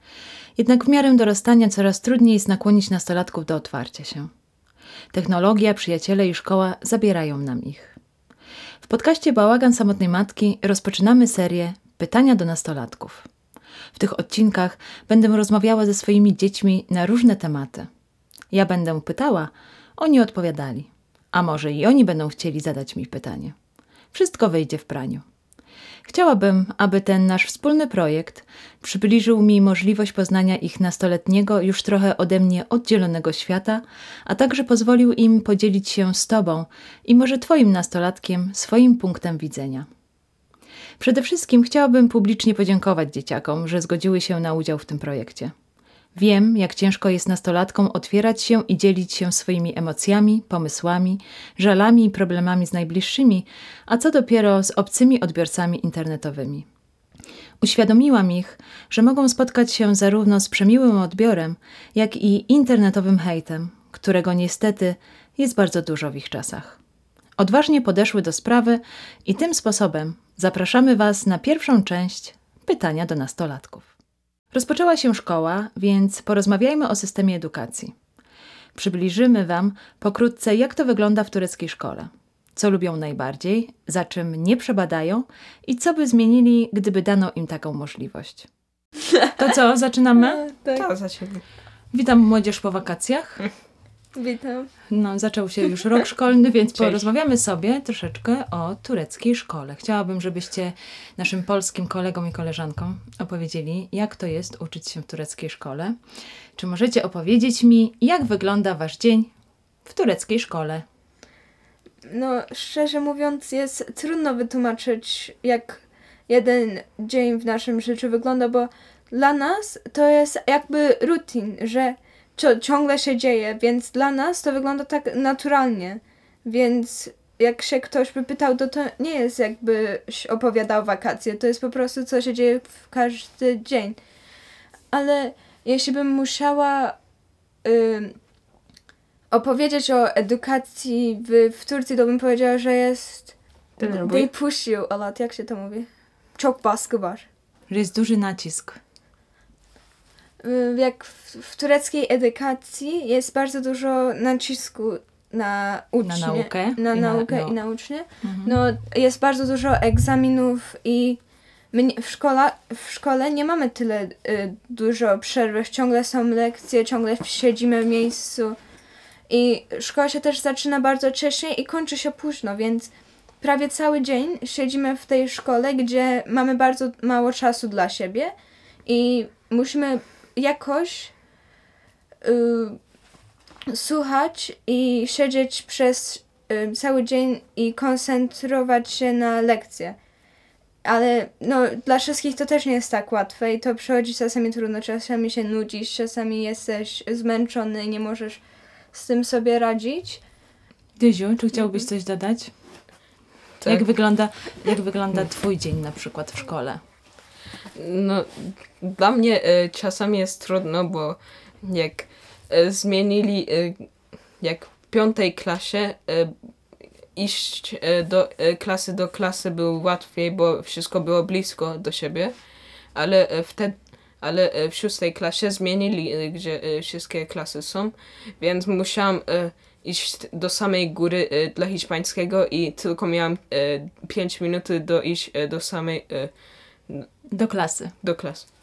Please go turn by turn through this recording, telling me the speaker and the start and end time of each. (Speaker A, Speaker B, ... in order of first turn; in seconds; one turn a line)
Speaker A: 0.6-4.3
Speaker A: 5.1-8.0
Speaker A: 8.8-13.3
Speaker A: 13.9-17.9
Speaker A: 18.5-23.6
Speaker A: 24.1-25.2
Speaker A: 26.1-39.9
Speaker A: 41.0-45.5
Speaker A: 46.2-56.7
Speaker A: 57.6-66.8
Speaker A: 67.4-73.9
Speaker A: 74.5-77.9
Speaker A: 78.8-88.5
Speaker A: 89.4-90.4
Speaker B: 90.2-90.9
Speaker C: 90.8-91.4
Speaker A: 91.9-93.5
Speaker B: 94.2-94.7
Speaker A: 94.9-106.0
Speaker C: 96.8-97.1
Speaker A: 106.6-109.3
Speaker A: 109.8-110.8
Speaker B: 112.1-134.0
Speaker B: 134.9-137.0
Speaker B: 137.6-138.2
Speaker B: 139.3-147.3
Speaker C: 143.8-144.3
Speaker A: 147.7-148.8
Speaker B: 150.4-161.2
Speaker A: 156.0-157.6
Speaker A: 158.2-158.6
Speaker B: 161.7-168.6
Speaker B: 169.3-178.3
Speaker B: 178.9-181.1
Speaker B: 182.2-182.8
Speaker B: 183.7-190.0
Speaker B: 190.8-198.4
Speaker B: 198.9-200.2
Speaker A: 201.0-202.5
Speaker A: 203.7-206.8
Speaker C: 207.7-222.4
Speaker C: 222.9-236.3
Speaker A: 237.3-237.9
Speaker C: 238.0-238.5